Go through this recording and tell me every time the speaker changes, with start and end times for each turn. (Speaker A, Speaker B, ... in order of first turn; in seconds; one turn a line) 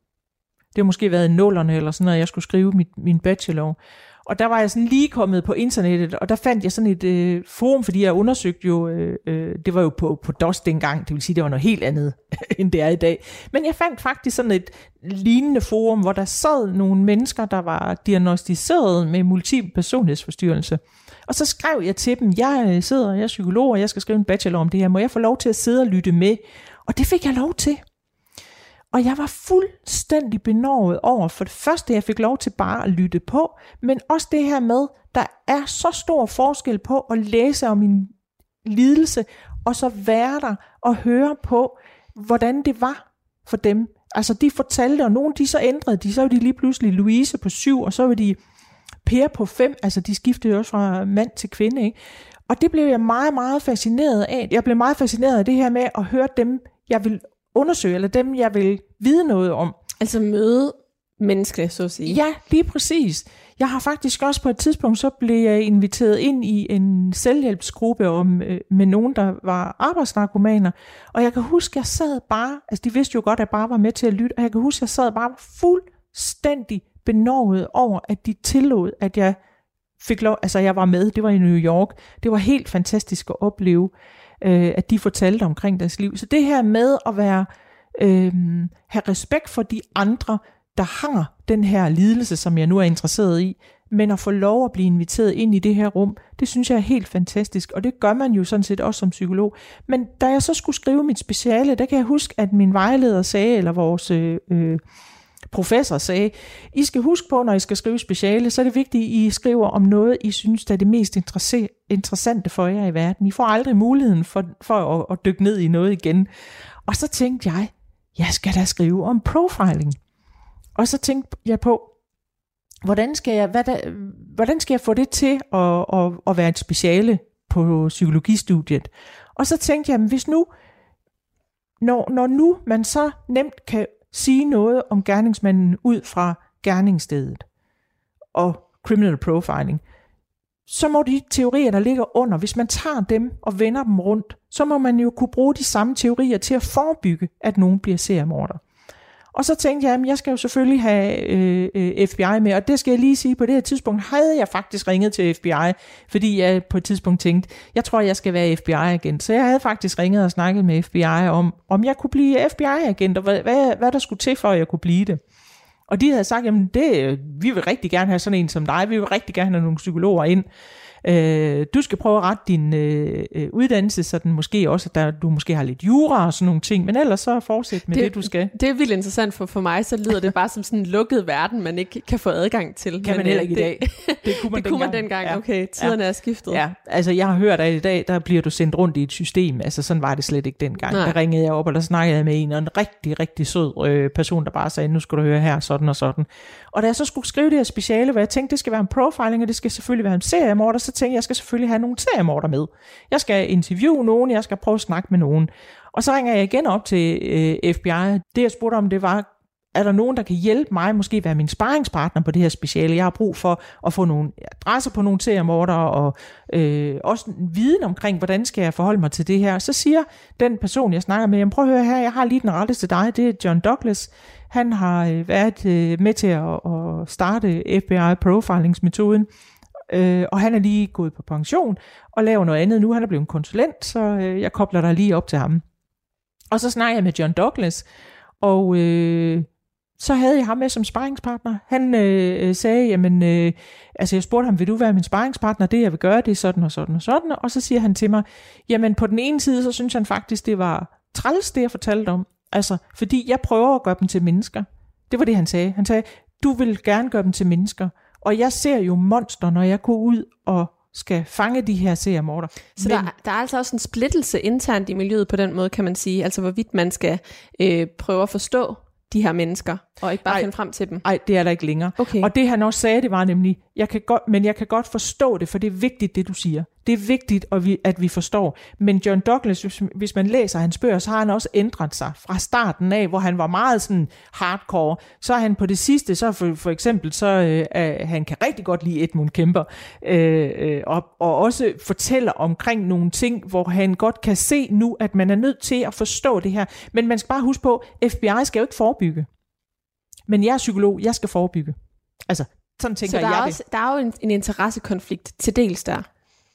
Speaker A: 0.7-27.8
Speaker A: 28.9-48.4
Speaker A: 49.0-52.0
Speaker A: 52.5-59.8
Speaker B: 60.0-62.2
Speaker A: 62.1-79.4
Speaker A: 80.0-104.8
Speaker A: 105.5-116.3
Speaker A: 116.9-120.0
Speaker A: 120.8-121.9
Speaker A: 122.8-130.5
Speaker A: 131.8-137.4
Speaker A: 138.3-139.8
Speaker A: 140.7-148.6
Speaker A: 149.3-165.2
Speaker A: 165.9-170.5
Speaker A: 171.0-178.5
Speaker B: 177.9-186.6
Speaker A: 183.0-186.0
Speaker A: 186.5-229.3
Speaker B: 190.9-191.2
Speaker A: 229.9-235.6
Speaker A: 236.5-237.9
Speaker A: 238.4-239.5
Speaker A: 240.0-263.1
Speaker B: 262.8-271.0
Speaker A: 271.0-299.3
Speaker B: 272.0-272.3
Speaker A: 300.3-301.8
Speaker A: 302.3-303.6
Speaker B: 303.0-306.1